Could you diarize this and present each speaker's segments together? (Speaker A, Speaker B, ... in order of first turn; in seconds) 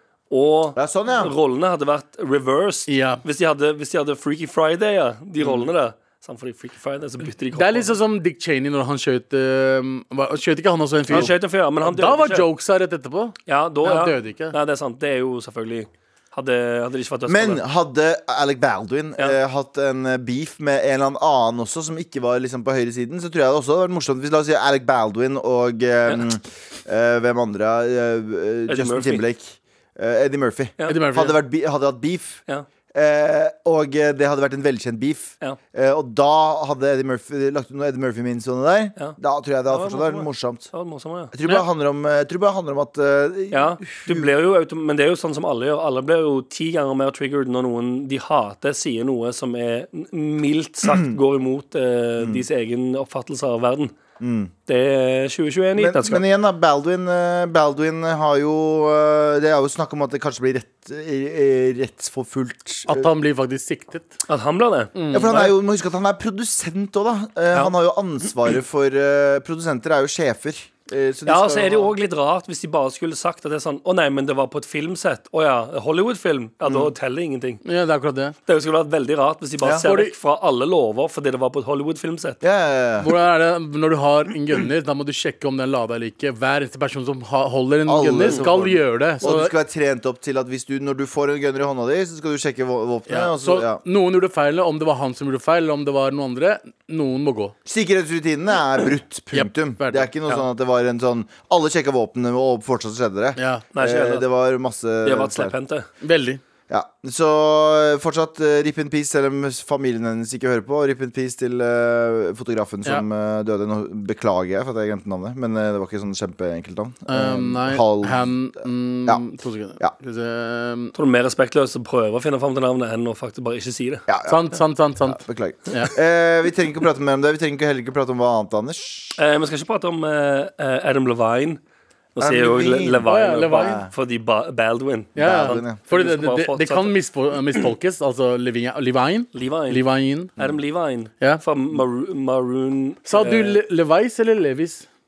Speaker A: 0.3-7.9, 11.1-12.5, 13.5-17.6, 28.7-29.2, 39.7-41.3, 43.5-54.0, 54.7-56.2, 64.3-65.5, 71.3-77.6, 78.5-82.4, 103.7-104.3, 105.0-105.9, 121.0-124.1, 129.2-131.6, 132.2-136.9, 139.3-139.8, 140.4-143.6
Speaker B: 0.8-1.3, 5.4-5.7, 17.3-32.4, 32.9-40.7, 41.3-44.3, 50.8-51.2, 54.2-54.5, 55.8-63.1, 65.1-71.9, 76.6-76.9, 82.4-83.1, 87.9-93.8, 97.7-105.5, 106.7-118.3, 124.1-129.2, 132.2-133.9, 135.2-135.8
Speaker C: 2.9-3.2, 7.5-14.6, 30.9-31.4, 62.9-64.2, 65.0-65.3, 77.6-78.3, 79.8-80.2, 83.0-89.5, 93.1-97.5, 99.3-100.1, 103.4-103.6, 106.0-106.4, 117.1-120.9, 124.3-125.9, 133.1-133.8, 135.2-140.3, 143.1-144.9